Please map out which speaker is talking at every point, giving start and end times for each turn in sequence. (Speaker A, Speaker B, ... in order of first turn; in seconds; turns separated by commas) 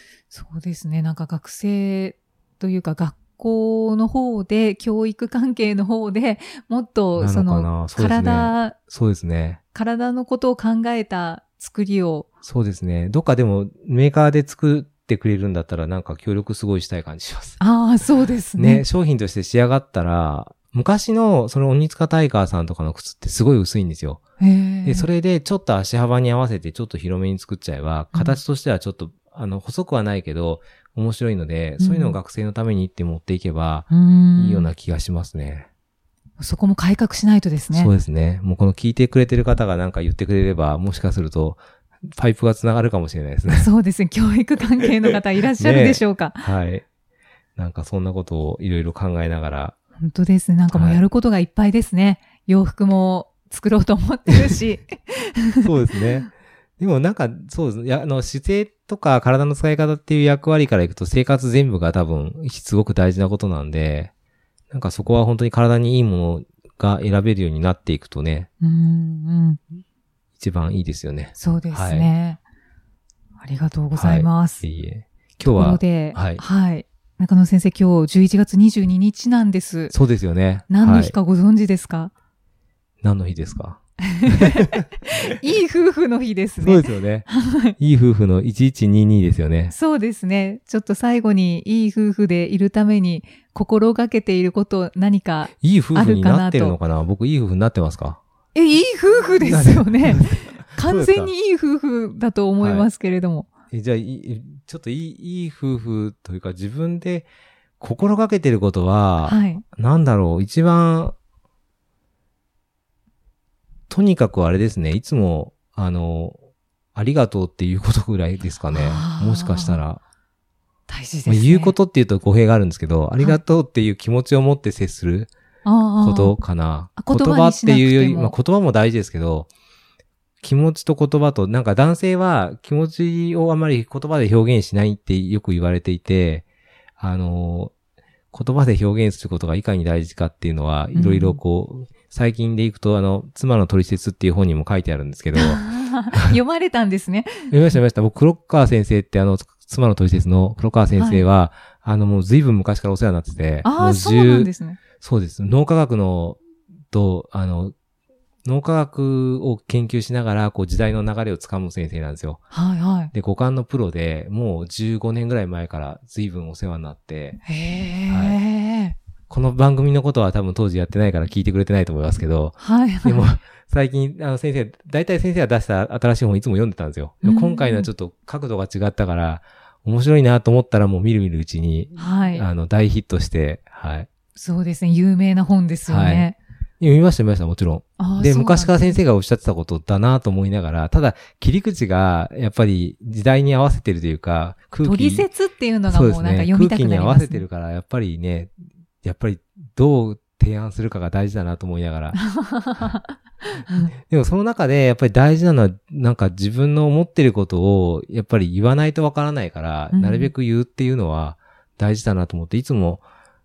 Speaker A: 0.3-8.8, Speaker B: 7.2-9.6, Speaker A: 9.8-12.3, Speaker B: 12.4-17.6, Speaker A: 17.6-18.9, Speaker B: 18.5-24.2, Speaker A: 24.4-25.1, Speaker B: 24.8-35.7, Speaker A: 28.1-28.4, Speaker A: 31.8-32.2, Speaker A: 33.9-34.7, Speaker A: 36.4-37.9, Speaker B: 37.7-43.7, Speaker A: 43.5-46.5, Speaker B: 45.5-46.9, Speaker B: 47.6-49.8, Speaker A: 50.0-55.7, Speaker B: 50.7-51.0, Speaker B: 54.3-54.6, Speaker B: 55.6-64.1, Speaker B: 64.7-68.5, Speaker A: 68.6-69.6, Speaker B: 70.4-72.1, Speaker A: 71.4-72.4, Speaker A: 73.4-74.6, Speaker B: 74.0-76.4, Speaker A: 75.5-80.0, Speaker B: 79.9-81.2, Speaker A: 80.7-82.1, Speaker B: 83.0-85.3, Speaker A: 84.0-87.7, Speaker B: 86.6-89.8, Speaker A: 89.7-96.8, Speaker B: 95.6-98.2, Speaker A: 98.5-103.5, Speaker B: 99.4-101.3, Speaker B: 102.6-102.9, Speaker B: 103.7-107.3, Speaker B: 107.8-111.2, Speaker A: 109.2-109.6, Speaker B: 113.9-116.4, Speaker B: 117.0-120.0, Speaker A: 118.7-119.8, Speaker A: 120.9-121.8, Speaker B: 121.3-125.3, Speaker A: 125.7-126.4, Speaker B: 126.0-129.5, Speaker A: 127.0-128.4, Speaker B: 130.4-136.4, Speaker B: 137.0-137.7, Speaker B: 138.3-146.4, Speaker A: 140.9-141.4, Speaker A: 145.3-147.5, Speaker B: 147.5-156.4, Speaker A: 151.0-151.3, Speaker A: 153.6-154.8, Speaker B: 156.9-157.7, Speaker B: 158.4-162.4, Speaker A: 162.5-163.1, Speaker B: 163.1-167.4, Speaker A: 167.4-169.0, Speaker B: 168.1-168.4, Speaker B: 169.3-184.1, Speaker A: 172.6-173.3, Speaker A: 177.2-177.9, Speaker A: 182.0-182.5, Speaker A: 184.3-186.4, Speaker B: 185.9-195.3, Speaker A: 188.0-189.0, Speaker A: 194.8-197.4, Speaker B: 195.9-202.2, Speaker A: 202.1-203.9, Speaker B: 204.0-213.0, Speaker A: 209.9-210.3